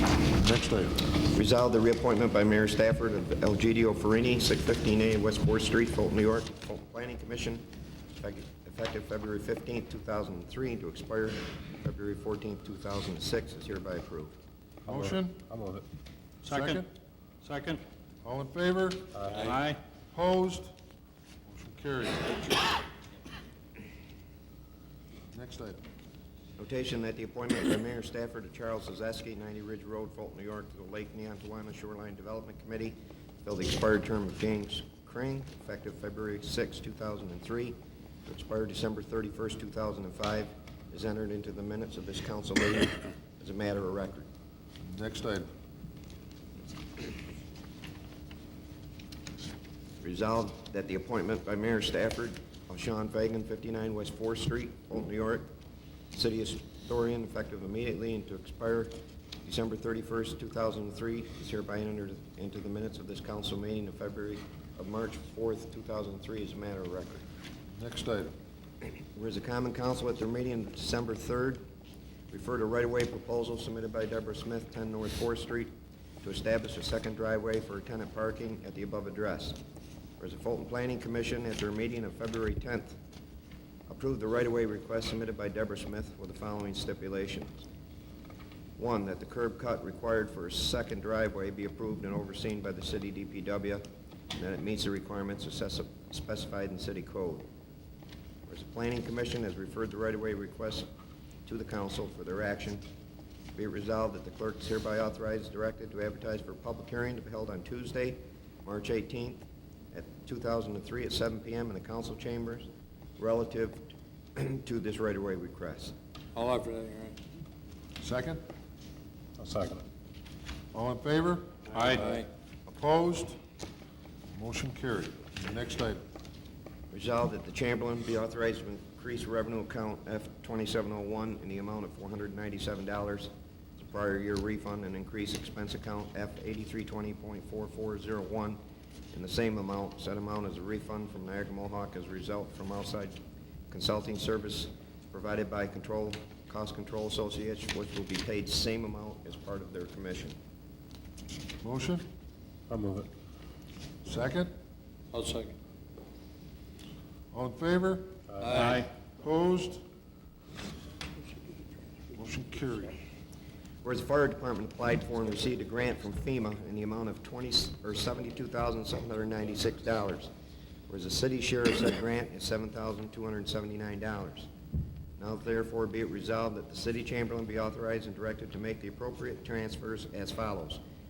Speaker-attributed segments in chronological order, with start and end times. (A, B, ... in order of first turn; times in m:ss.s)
0:00.3-0:01.0 A
0:01.3-0:07.6 B
0:08.2-0:14.4 B
0:14.8-0:15.8 C
0:14.9-0:15.4 A
0:16.4-0:16.9 A
0:16.4-0:16.8 D
0:17.4-0:17.8 D
0:18.2-0:19.2 A
0:19.1-0:19.5 C
0:19.3-0:19.8 D
0:20.1-0:20.7 A
0:21.4-0:22.7 A
0:25.3-0:25.8 A
0:26.6-0:44.3 B
0:44.8-0:45.5 A
0:50.0-0:55.5 B
0:56.1-1:07.2 B
1:07.7-1:08.3 A
1:08.8-1:11.6 B
1:12.3-1:19.6 B
1:20.2-1:23.0 B
1:23.9-1:27.6 B
1:28.8-1:37.5 B
1:38.5-1:40.9 B
1:41.4-1:42.8 B
1:43.5-1:55.9 B
1:56.3-1:57.2 E
1:58.0-1:58.4 A
1:59.4-1:59.8 C
2:00.7-2:03.4 A
2:01.7-2:02.0 D
2:01.7-2:02.3 E
2:04.3-2:06.0 A
2:06.9-2:18.6 B
2:19.1-2:23.2 B
2:23.7-2:30.4 B
2:31.6-2:32.0 A
2:32.7-2:33.1 C
2:34.0-2:34.5 A
2:35.1-2:35.6 E
2:37.3-2:38.2 A
2:38.3-2:38.6 C
2:38.4-2:38.9 E
2:38.5-2:38.9 D
2:39.2-2:39.8 A
2:42.1-2:43.0 A
2:43.8-2:50.3 B
2:50.9-2:54.5 B
2:55.2-3:00.8 B